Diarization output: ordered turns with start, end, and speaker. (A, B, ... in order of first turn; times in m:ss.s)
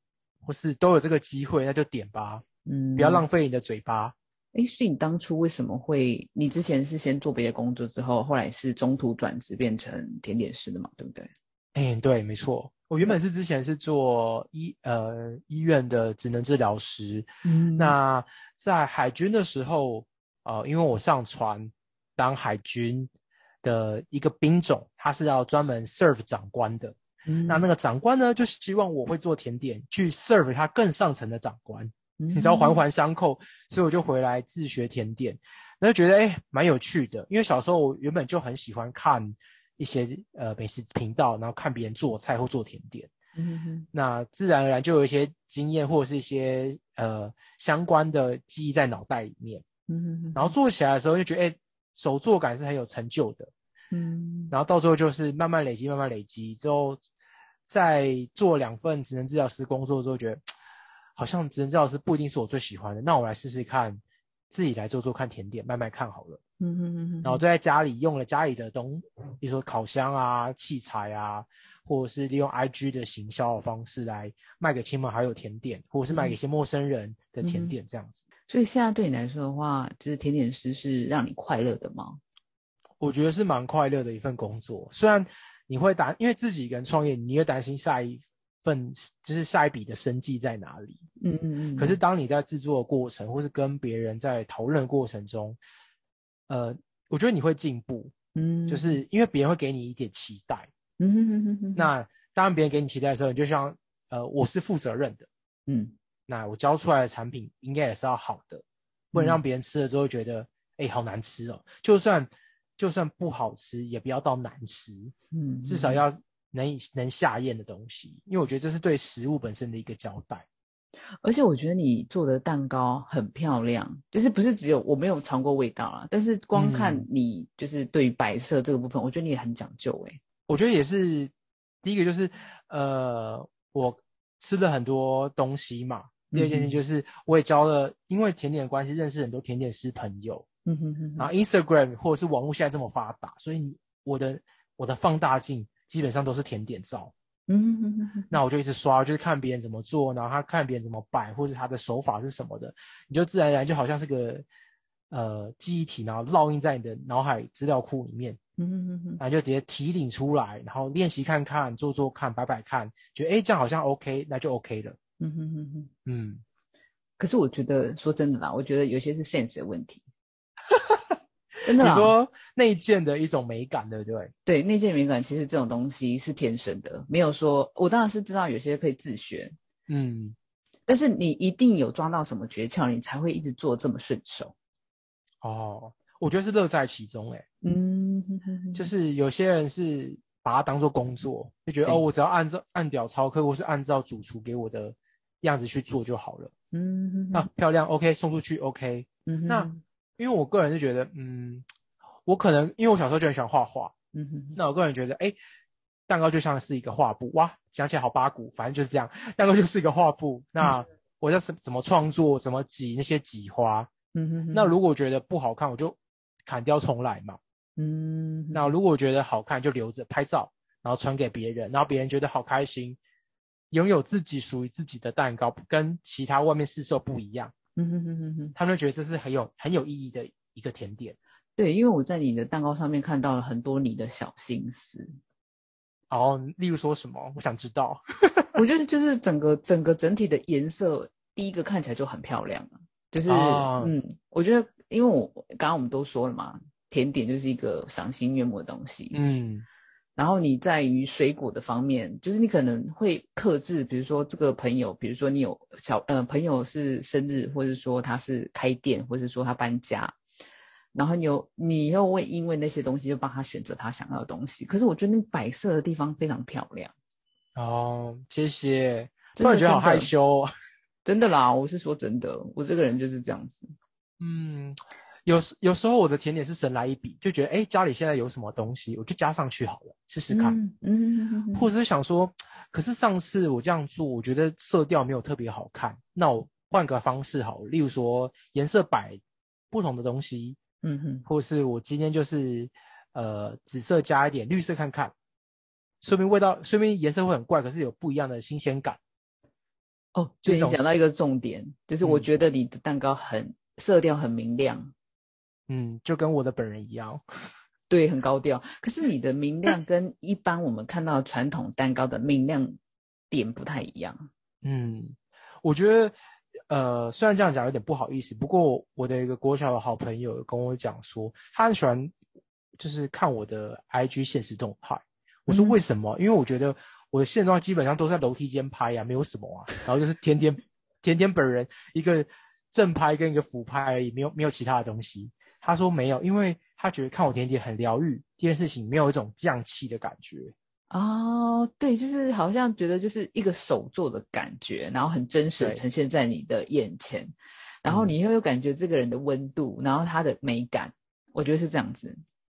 0:00.4-0:02.4 A
0:02.6-0:03.2 B
0:03.0-0:04.1 A
0:04.5-0:11.3 B
0:11.7-0:23.1 A
0:17.4-0:18.0 B
0:23.6-0:43.1 A
0:27.2-0:27.7 B
0:32.2-0:32.8 B
0:43.4-0:43.9 B
0:43.9-0:49.6 A
0:49.9-0:50.6 B
0:50.4-0:53.5 A
0:53.9-0:54.6 B
0:54.5-0:57.0 A
0:57.7-1:00.4 A
1:01.2-1:06.4 A
1:06.6-1:07.4 B
1:07.2-1:18.2 A
1:16.1-1:16.4 B
1:17.4-1:17.7 B
1:18.5-1:22.2 B
1:23.0-1:31.0 A
1:31.2-1:32.0 B
1:31.8-1:35.6 A
1:36.5-1:38.1 A
1:38.4-1:39.0 B
1:38.7-1:40.7 A
1:41.0-1:41.9 B
1:41.7-1:45.3 A
1:45.7-1:45.9 B
1:46.3-1:55.1 A
1:49.1-1:49.4 B
1:55.3-1:56.0 B
1:55.6-2:00.4 A
2:01.2-2:10.2 B
2:06.6-2:07.1 A
2:10.5-2:11.3 A
2:11.8-2:20.4 A
2:16.3-2:16.8 B
2:20.6-2:21.3 B
2:21.2-2:27.1 A
2:27.5-2:28.4 B
2:28.3-2:34.4 A
2:35.1-2:38.4 A
2:38.6-2:39.2 B
2:39.2-2:45.0 A
2:45.2-2:45.9 B
2:46.1-2:46.4 A
2:47.2-2:50.0 B
2:50.7-2:51.1 A
2:51.6-2:52.2 B
2:51.8-2:54.3 A
2:54.4-2:59.6 B
2:59.9-3:00.4 A
3:00.9-3:04.5 B
3:05.4-3:07.4 A
3:07.6-3:08.9 B
3:08.7-3:16.5 A
3:16.7-3:17.5 B
3:17.3-3:21.6 A
3:19.3-3:19.8 B
3:22.2-3:23.9 A
3:24.1-3:24.6 B
3:24.6-3:25.4 A
3:26.1-3:33.9 A
3:34.1-3:34.7 B
3:34.5-3:37.4 A
3:37.8-3:38.7 B
3:38.5-3:43.0 A
3:43.7-3:47.5 A
3:47.8-3:48.5 B
3:48.5-3:51.2 A
3:51.6-3:55.2 B
3:56.1-3:58.6 A
3:58.6-4:09.2 B
4:03.3-4:03.9 A
4:09.1-4:09.6 A
4:10.2-4:20.2 B
4:20.9-4:26.9 B
4:27.5-4:30.5 A
4:29.4-4:30.1 B
4:31.0-4:33.7 B
4:34.2-4:40.6 A
4:40.3-4:41.7 B
4:41.5-4:50.6 A
4:50.8-4:51.2 B
4:51.2-4:55.1 A
4:56.0-4:59.0 A
5:00.2-5:04.9 B
5:00.5-5:00.9 A
5:02.0-5:02.3 A
5:05.7-5:07.2 A
5:07.9-5:12.8 B
5:13.3-5:14.3 B
5:14.6-5:16.2 A
5:16.7-5:22.1 A
5:22.8-5:40.5 A
5:25.5-5:25.8 B
5:40.9-5:47.3 B
5:47.8-5:52.2 B
5:47.9-5:48.2 A